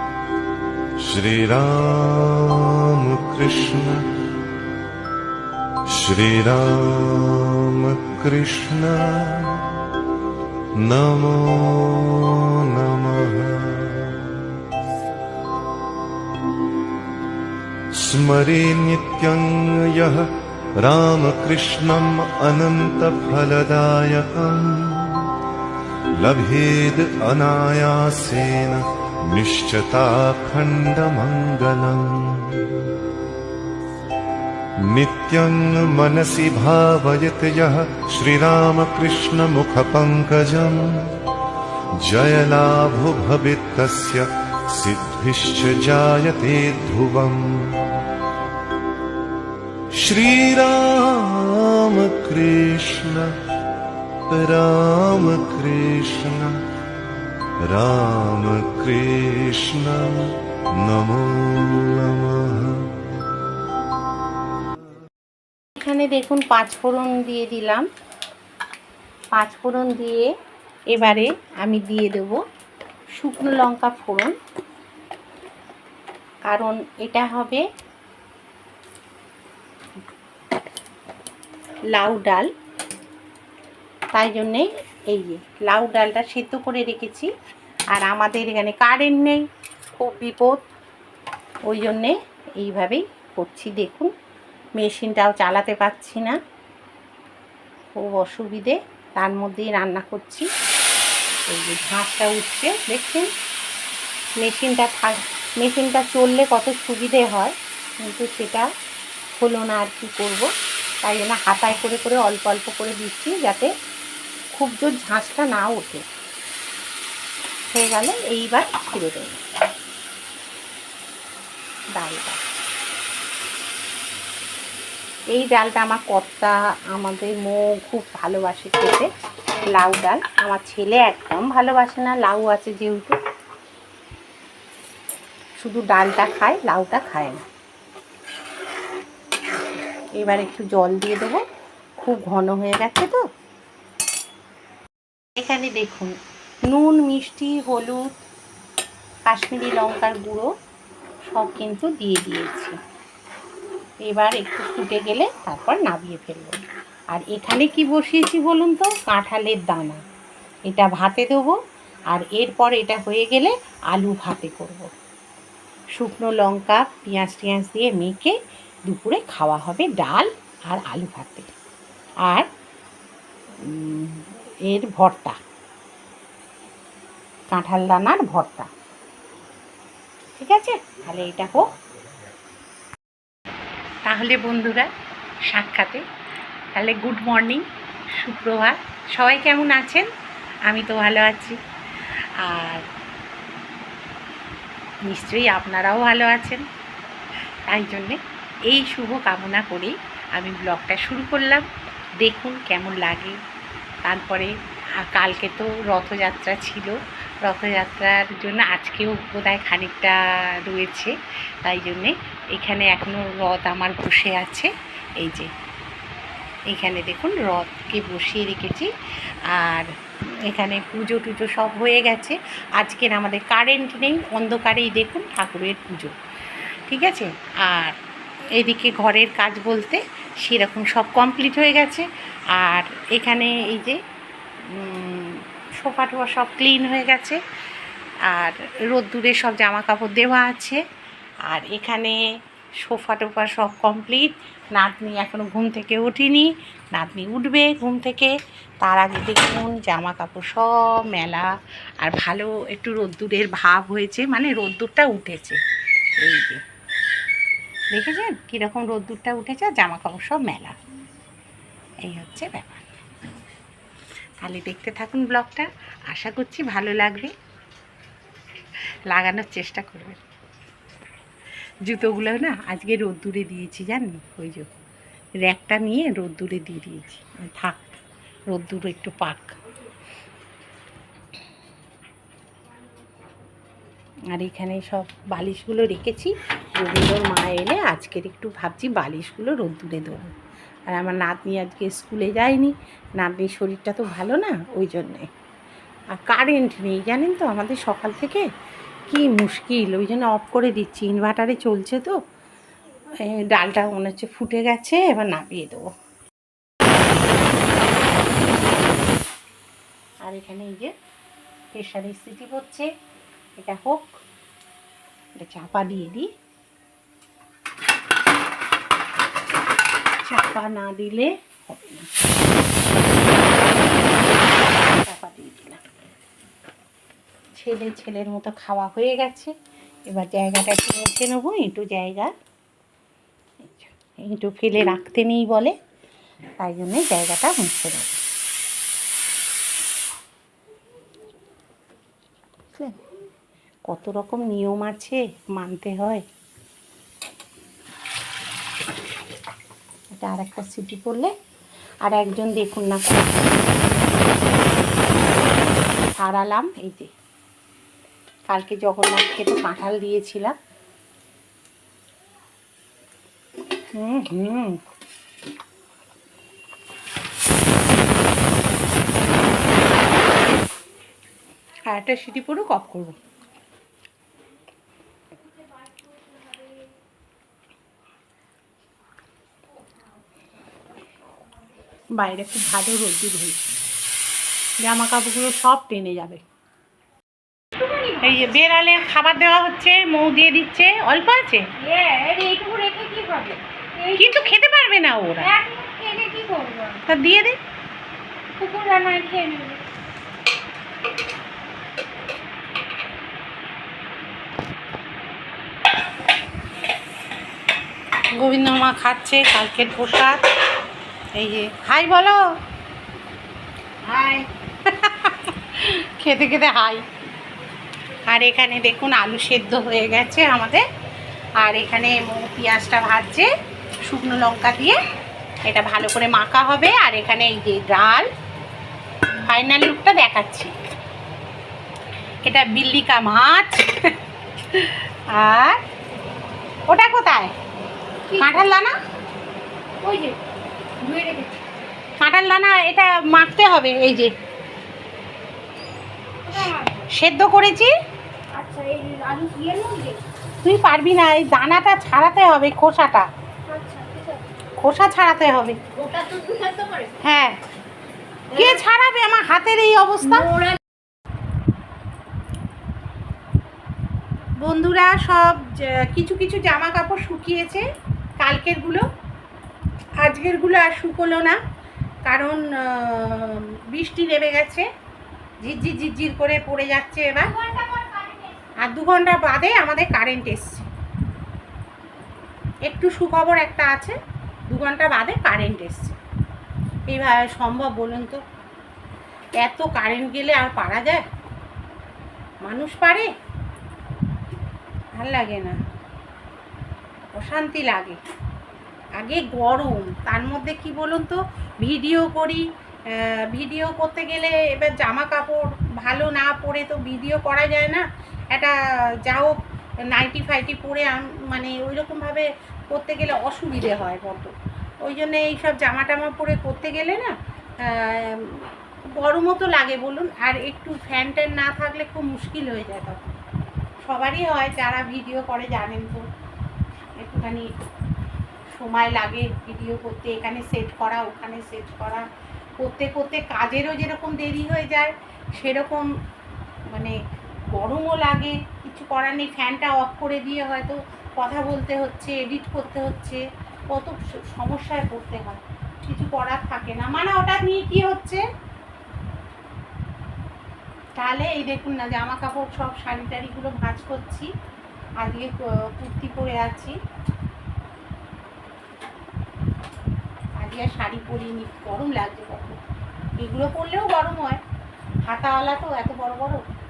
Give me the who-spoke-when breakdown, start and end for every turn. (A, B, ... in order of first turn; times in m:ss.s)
0:01.0-0:04.1 A
0:05.9-0:09.7 A
0:10.8-0:14.6 A
0:18.0-0:20.3 A
0:20.8-0:25.3 A
0:26.2-0:33.0 A
0:34.8-0:41.0 A
0:42.0-0:48.0 A
0:50.0-0:53.3 A
0:54.3-0:56.5 A
0:57.7-1:02.9 A
1:05.8-1:07.9 B
1:09.3-1:10.3 B
1:10.9-1:12.4 B
1:13.2-1:14.3 B
1:16.5-1:17.6 B
1:21.9-1:22.5 B
1:24.1-1:27.3 B
1:27.9-1:29.4 B
1:30.0-1:30.6 B
1:31.7-1:34.1 B
1:34.8-1:36.4 B
1:38.0-1:40.5 B
1:41.5-1:43.3 B
1:44.4-1:48.7 B
1:49.4-1:50.5 B
1:51.0-1:53.7 B
1:54.5-1:56.0 B
1:57.7-1:59.4 B
2:02.0-2:02.4 B
2:05.3-2:09.1 B
2:09.7-2:13.2 B
2:15.6-2:17.4 B
2:20.2-2:21.4 B
2:22.0-2:23.2 B
2:25.4-2:26.1 B
2:26.7-2:28.1 B
2:29.3-2:30.5 B
2:31.3-2:32.8 B
2:34.1-2:36.6 B
2:37.1-2:40.0 B
2:40.7-2:41.6 B
2:42.1-2:44.9 B
2:46.0-2:48.4 B
2:48.9-2:51.5 B
2:53.6-2:55.4 B
2:57.5-2:58.7 B
3:00.4-3:01.6 B
3:04.1-3:04.9 B
3:05.5-3:06.0 B
3:06.8-3:07.6 B
3:08.2-3:10.1 B
3:10.7-3:11.6 B
3:12.4-3:12.8 B
3:15.1-3:16.6 B
3:17.7-3:21.7 B
3:22.2-3:23.4 B
3:24.0-3:31.1 B
3:31.6-3:35.5 B
3:36.7-3:38.9 B
3:39.5-3:39.9 B
3:40.5-3:46.2 B
3:46.9-3:48.0 B
3:48.6-3:54.0 B
3:54.7-3:57.4 B
3:58.3-4:00.8 B
4:01.5-4:02.2 B
4:02.8-4:11.5 B
4:12.0-4:15.6 B
4:16.2-4:16.6 B
4:17.9-4:20.7 B
4:22.0-4:22.9 B
4:24.4-4:27.3 B
4:29.1-4:30.2 B
4:31.9-4:34.7 B
4:35.4-4:38.0 B
4:38.5-4:39.6 B
4:44.3-4:50.3 B
4:50.9-4:55.3 B
4:56.1-4:58.4 B
4:59.1-5:02.2 B
5:03.3-5:05.9 B
5:10.2-5:10.9 B
5:11.7-5:12.9 B
5:13.6-5:14.1 B
5:15.4-5:16.3 B
5:20.2-5:22.2 B
5:23.3-5:25.8 B
5:27.6-5:29.5 B
5:30.1-5:32.3 B
5:33.7-5:35.7 B
5:36.6-5:38.2 B
5:43.9-5:46.2 B
5:50.1-5:51.3 B
5:52.0-5:53.7 B
5:56.2-5:57.1 B
5:58.5-6:00.5 B
6:04.0-6:04.8 B
6:11.9-6:13.2 B
6:22.2-6:23.8 B
6:24.8-6:26.4 B
6:27.8-6:28.4 C
6:28.2-6:31.6 B
6:31.8-6:34.5 C
6:34.2-6:35.5 B
6:35.4-6:37.0 C
6:37.1-6:37.6 B
6:38.6-6:39.8 C
6:48.4-6:50.4 B
6:51.4-6:52.4 B
6:54.1-6:54.4 C
6:54.8-6:57.0 B
6:58.3-7:00.8 B
7:01.6-7:03.5 B
7:04.1-7:05.0 B
7:05.7-7:08.3 B
7:09.5-7:10.7 B
7:12.4-7:13.9 B
7:14.7-7:15.8 B
7:16.9-7:17.5 B
7:18.3-7:18.6 C
7:18.4-7:18.9 B
7:20.0-7:20.4 C
7:21.0-7:21.6 C
7:22.2-7:24.3 B
7:26.4-7:27.1 C
7:26.6-7:27.9 B
7:28.5-7:30.2 C
7:30.6-7:33.3 B
7:33.7-7:34.4 C
7:34.8-7:35.8 B
7:35.9-7:37.1 C
7:37.2-7:37.6 B
7:38.5-7:40.5 B
7:40.3-7:40.8 C
7:44.6-7:47.8 B
7:48.4-7:49.0 B
7:50.2-7:51.6 B
7:52.3-7:54.9 B
7:55.6-7:57.5 B
7:57.4-7:58.6 C
7:58.8-8:00.9 B
8:02.9-8:04.2 B
8:04.7-8:06.2 B
8:07.1-8:08.4 B
8:09.6-8:11.2 B
8:12.6-8:13.3 B
8:15.2-8:15.8 B
8:17.3-8:18.2 B
8:19.2-8:28.7 B
8:29.3-8:29.6 B
8:30.1-8:34.5 B
8:35.1-8:43.2 B
8:44.0-8:46.2 B
8:47.2-8:47.7 B
8:48.7-8:52.3 B
8:52.8-8:56.1 B
8:57.7-9:08.4 B
9:11.2-9:14.5 B
9:15.2-9:17.0 B
9:20.6-9:22.8 B
9:23.4-9:24.6 B
9:25.3-9:26.6 B